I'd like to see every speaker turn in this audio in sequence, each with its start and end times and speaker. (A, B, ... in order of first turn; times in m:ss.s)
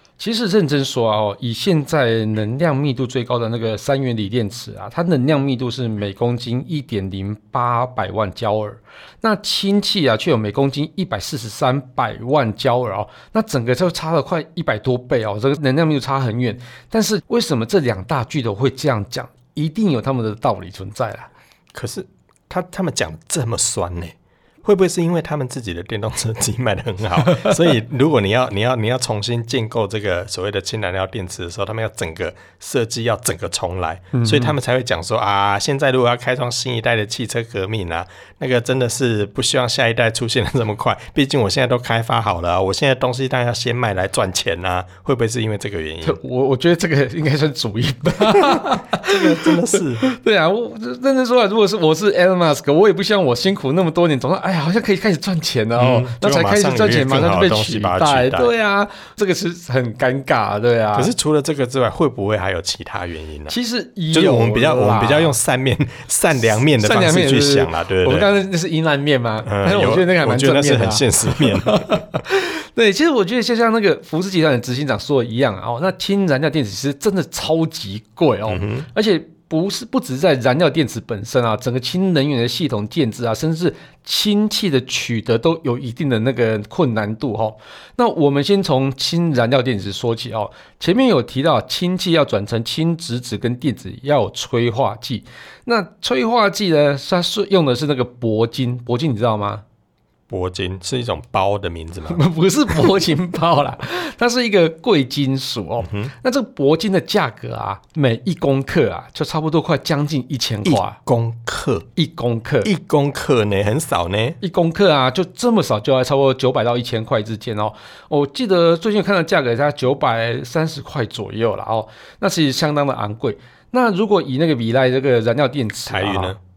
0:00.2-0:21.3 A
0:21.7-0:46.2 B
0:27.3-0:27.5 A
0:34.1-0:34.6 A
0:46.0-1:01.1 A
0:48.2-0:50.0 B
0:55.8-0:58.5 B
1:00.9-1:03.5 B
1:03.5-1:05.4 A
1:04.1-1:08.3 B
1:06.4-1:39.6 A
1:09.4-1:12.1 B
1:18.5-1:18.9 B
1:40.3-1:42.2 B
1:42.1-1:51.0 A
1:45.8-1:46.1 B
1:50.6-1:51.9 B
1:52.0-1:52.7 A
1:52.6-1:54.4 B
1:54.4-2:06.3 A
2:05.9-2:06.4 B